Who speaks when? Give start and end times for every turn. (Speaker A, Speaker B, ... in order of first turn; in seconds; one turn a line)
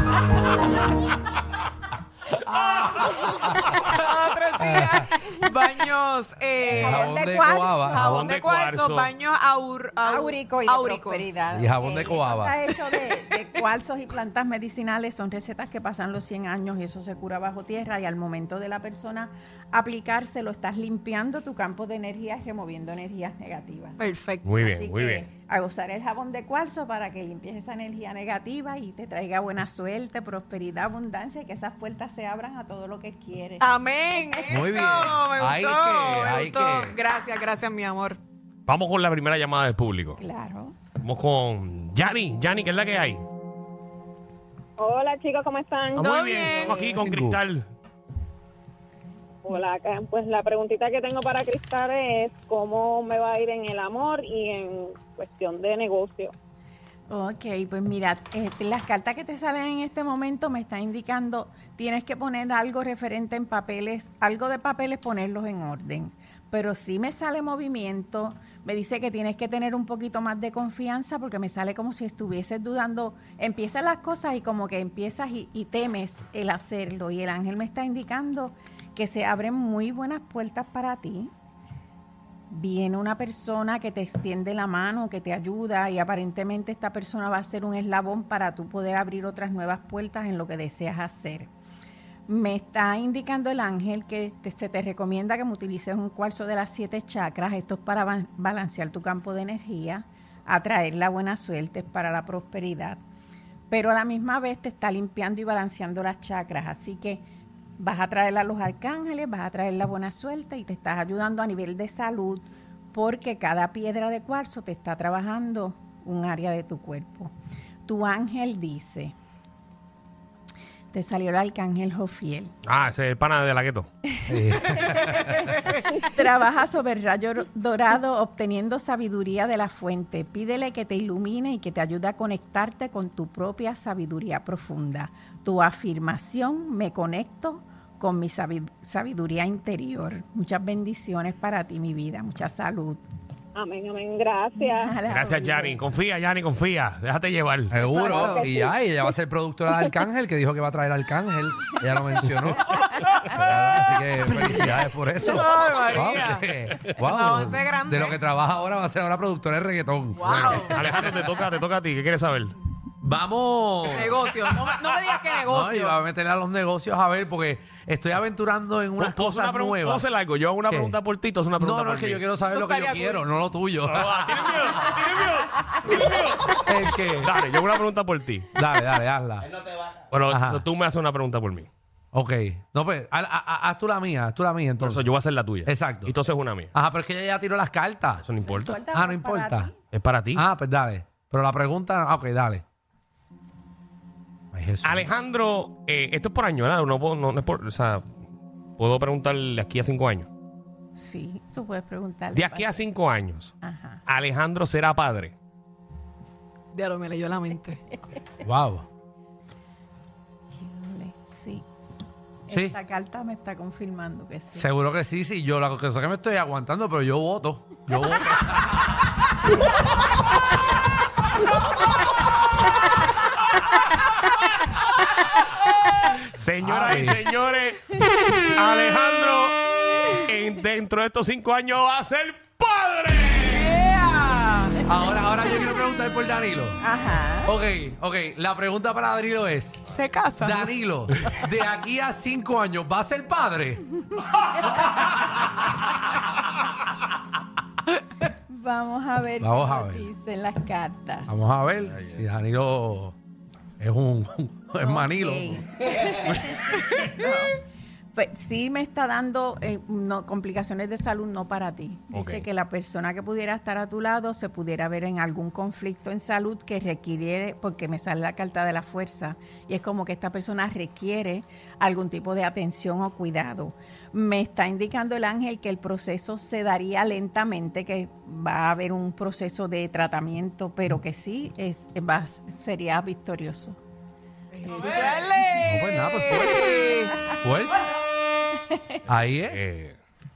Speaker A: 2.5-3.9
Speaker B: 3.9-7.1
Speaker A: 4.6-5.1
Speaker A: 6.7-8.1
Speaker C: 6.7-8.0
Speaker B: 7.9-11.4
Speaker D: 7.9-9.1
Speaker C: 10.0-24.0
Speaker A: 11.5-12.6
Speaker B: 24.0-24.5
Speaker D: 24.4-25.3
Speaker C: 24.6-34.6
Speaker B: 33.6-38.2
Speaker A: 34.5-37.0
Speaker D: 38.7-40.2
Speaker C: 40.2-40.8
Speaker D: 41.0-43.2
Speaker E: 44.8-46.1
Speaker D: 46.0-47.6
Speaker B: 46.0-46.8
Speaker C: 46.7-47.0
Speaker A: 46.8-47.4
Speaker E: 49.5-56.3
Speaker C: 57.1-81.3
Speaker C: 82.5-91.5
Speaker C: 92.3-103.0
Speaker C: 103.7-107.2
Speaker C: 107.8-117.3
Speaker C: 117.9-119.2
Speaker C: 120.9-122.5
Speaker D: 122.7-123.9
Speaker A: 124.3-125.5
Speaker C: 124.3-143.0
Speaker E: 143.6-144.9
Speaker C: 144.6-145.8
Speaker D: 145.1-147.8
Speaker A: 147.7-161.3
Speaker E: 147.8-148.7
Speaker B: 147.9-148.4
Speaker B: 155.2-158.2
Speaker D: 156.0-156.3
Speaker B: 160.2-160.8
Speaker D: 160.2-162.6
Speaker A: 163.0-164.4
Speaker B: 163.9-166.0
Speaker A: 165.4-170.0
Speaker D: 169.0-172.3
Speaker A: 170.7-171.0
Speaker A: 171.6-174.7
Speaker B: 172.4-173.2
Speaker D: 173.9-176.6
Speaker A: 176.7-177.3
Speaker D: 177.2-178.5
Speaker A: 178.6-179.5
Speaker D: 180.1-181.7
Speaker A: 180.3-180.6
Speaker A: 182.1-185.1
Speaker D: 184.8-186.7
Speaker A: 185.7-186.1
Speaker A: 186.7-188.2
Speaker D: 188.2-188.8
Speaker C: 188.4-189.8
Speaker A: 188.9-189.7
Speaker D: 189.9-190.5
Speaker A: 190.3-192.6
Speaker A: 194.5-195.1
Speaker D: 194.8-198.1
Speaker D: 198.8-200.3
Speaker C: 200.9-202.8
Speaker D: 202.3-203.5
Speaker C: 203.6-204.0
Speaker D: 204.1-205.3
Speaker B: 206.7-207.8
Speaker A: 208.4-208.8
Speaker C: 210.6-211.7
Speaker C: 212.5-214.7
Speaker A: 214.5-219.1
Speaker D: 226.2-228.0
Speaker A: 226.6-227.2
Speaker D: 228.6-233.7
Speaker B: 233.5-234.8
Speaker A: 234.9-236.8
Speaker C: 236.8-237.5
Speaker A: 237.4-239.8
Speaker B: 239.8-240.7
Speaker A: 240.4-243.9
Speaker C: 248.3-251.3
Speaker A: 249.4-250.1
Speaker A: 251.3-253.2
Speaker A: 253.8-255.6
Speaker C: 254.8-257.6
Speaker C: 258.1-283.8
Speaker D: 262.1-262.5
Speaker B: 284.5-287.2
Speaker A: 285.6-286.7
Speaker A: 287.3-287.9
Speaker C: 288.7-289.0
Speaker A: 289.1-289.6
Speaker D: 289.4-290.0